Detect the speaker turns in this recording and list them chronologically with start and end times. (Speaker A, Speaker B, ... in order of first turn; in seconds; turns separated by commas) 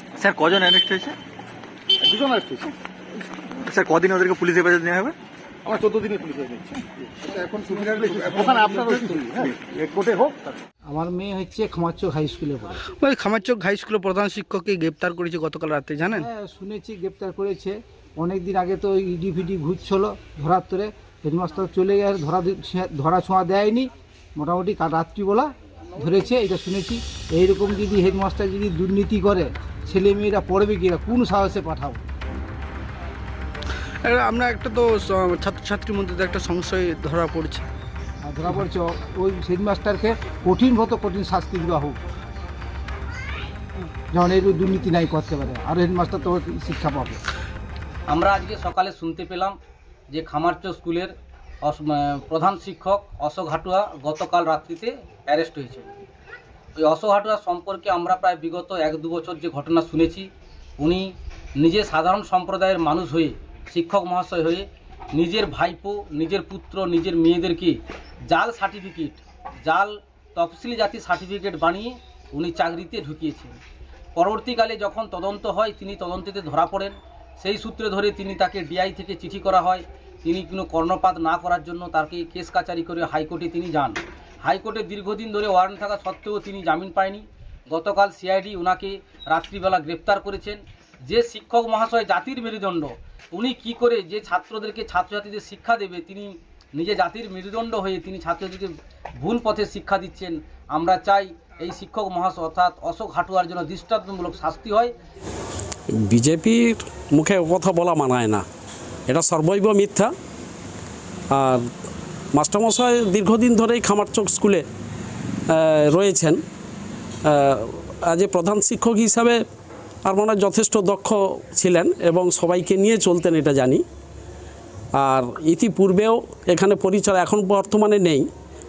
Speaker A: 0.2-1.2, Speaker B: 2.1-2.7, Speaker A: 3.6-5.2, Speaker B: 5.7-6.8, Speaker C: 7.3-9.4, Speaker B: 8.6-10.4, Speaker A: 9.4-9.6, Speaker C: 10.9-12.8, Speaker D: 12.9-16.3, Speaker C: 16.1-32.0, Speaker D: 34.0-37.7, Speaker C: 38.2-42.0, Speaker C: 44.1-47.2, Speaker E: 48.1-49.6, Speaker E: 50.1-55.9, Speaker E: 56.8-67.8, Speaker E: 68.3-73.6, Speaker E: 74.2-104.9, Speaker F: 106.1-108.5, Speaker F: 109.1-110.1, Speaker F: 111.3-111.7, Speaker F: 112.3-114.6, Speaker F: 115.5-116.4, Speaker F: 117.2-119.4, Speaker F: 120.0-123.8, Speaker F: 125.0-128.3